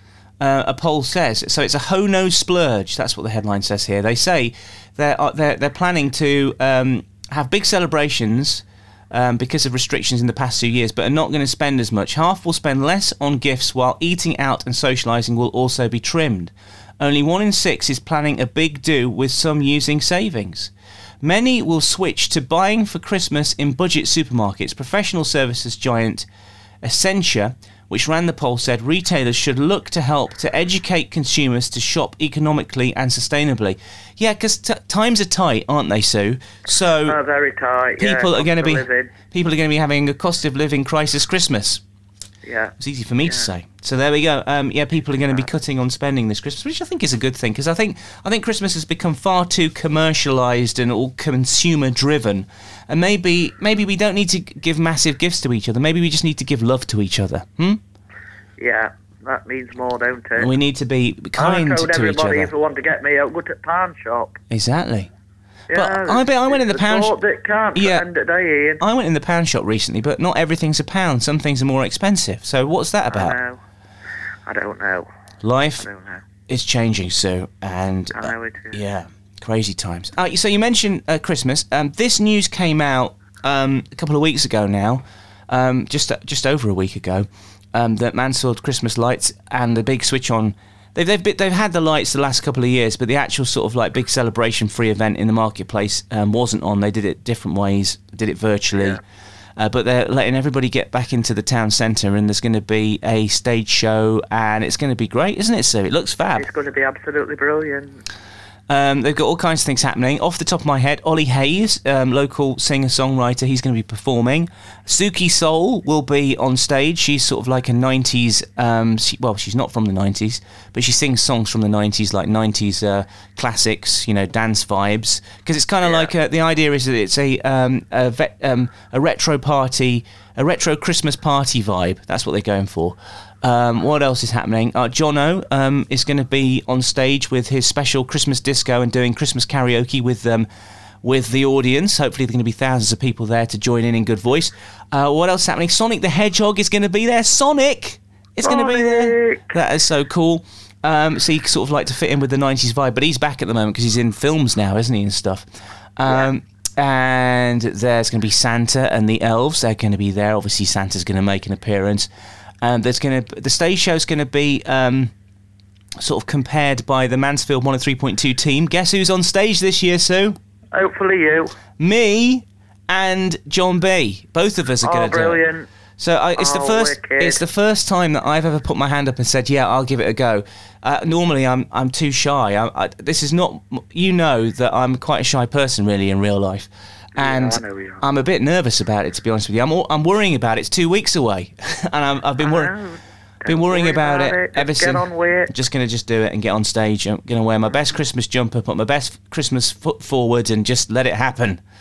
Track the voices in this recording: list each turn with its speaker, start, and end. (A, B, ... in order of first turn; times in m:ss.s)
0:00.4-0:26.3 A
0:26.8-0:37.2 A
0:37.0-0:39.1 B
0:38.0-0:41.8 A
0:42.4-0:43.5 B
0:42.8-0:57.8 A
0:58.6-1:00.5 B
1:00.4-1:02.5 A
1:01.4-1:04.4 B
1:04.5-1:05.1 A
1:05.7-1:08.8 B
1:05.7-1:07.2 A
1:07.8-1:08.0 A
1:08.8-1:13.4 A
1:13.1-1:13.6 B
1:14.5-1:15.1 B
1:15.4-1:15.8 A
1:15.8-1:16.2 B
1:16.5-1:39.0 A
1:18.1-1:18.8 B
1:39.6-1:46.5 A
1:46.4-1:48.0 B
1:48.7-2:20.5 A
2:05.8-2:06.1 B
2:21.0-2:35.4 A
2:28.4-2:29.5 B
2:36.0-2:42.1 A
2:42.6-2:45.1 A
2:46.0-2:50.4 A
2:50.7-2:51.5 B
2:51.8-2:55.4 A
2:54.8-2:55.7 B
2:56.0-3:12.7 A
2:56.4-2:57.4 B
3:07.2-3:08.0 B
3:12.4-3:15.5 B
3:13.4-3:21.6 A